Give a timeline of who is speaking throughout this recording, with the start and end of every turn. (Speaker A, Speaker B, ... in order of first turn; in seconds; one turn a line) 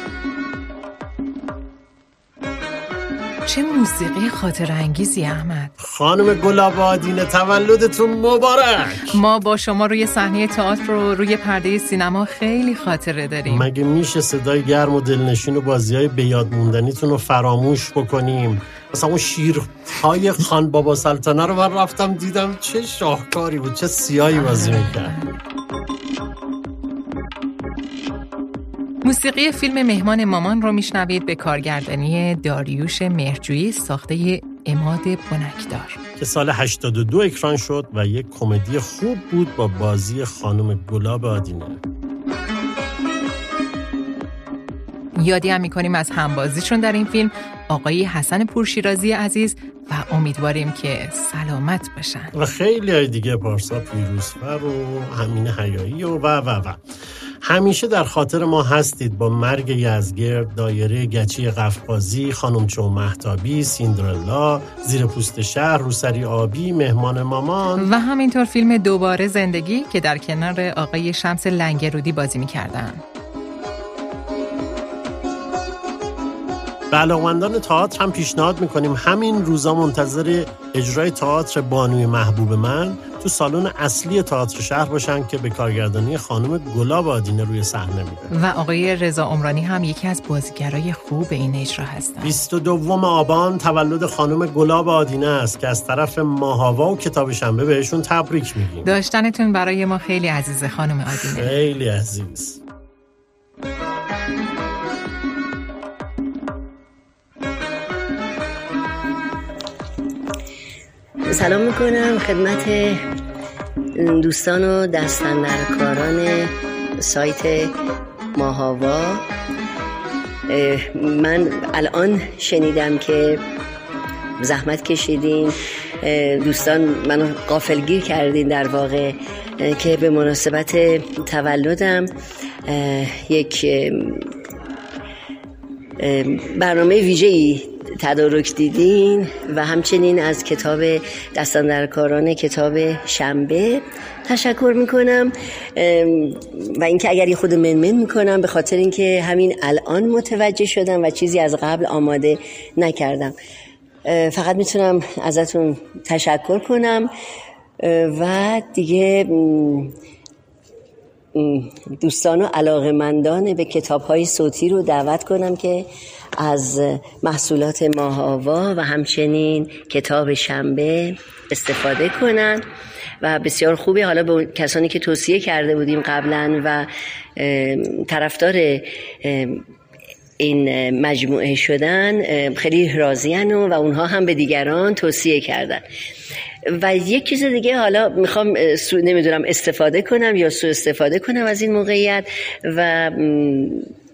Speaker A: 3.5-5.7
Speaker B: 5.8-9.2
Speaker A: 9.1-13.7
Speaker B: 13.4-25.1
Speaker A: 24.4-25.3
Speaker A: 29.0-36.0
Speaker B: 36.2-41.8
Speaker A: 45.2-52.3
Speaker B: 52.3-56.8
Speaker B: 57.4-67.8
Speaker A: 67.8-73.0
Speaker B: 76.9-88.3
Speaker A: 88.3-92.4
Speaker B: 92.2-98.9
Speaker A: 98.8-101.5
Speaker B: 101.1-102.6
Speaker C: 111.3-113.0
Speaker C: 114.0-117.7
Speaker C: 118.3-119.2
Speaker C: 120.5-123.4
Speaker C: 124.4-132.1
Speaker C: 132.7-134.3
Speaker C: 136.0-153.3
Speaker C: 154.0-157.1
Speaker C: 157.8-159.9
Speaker C: 161.3-165.9
Speaker C: 166.4-172.6
Speaker C: 173.2-179.6
Speaker C: 180.4-185.8
Speaker C: 186.7-193.9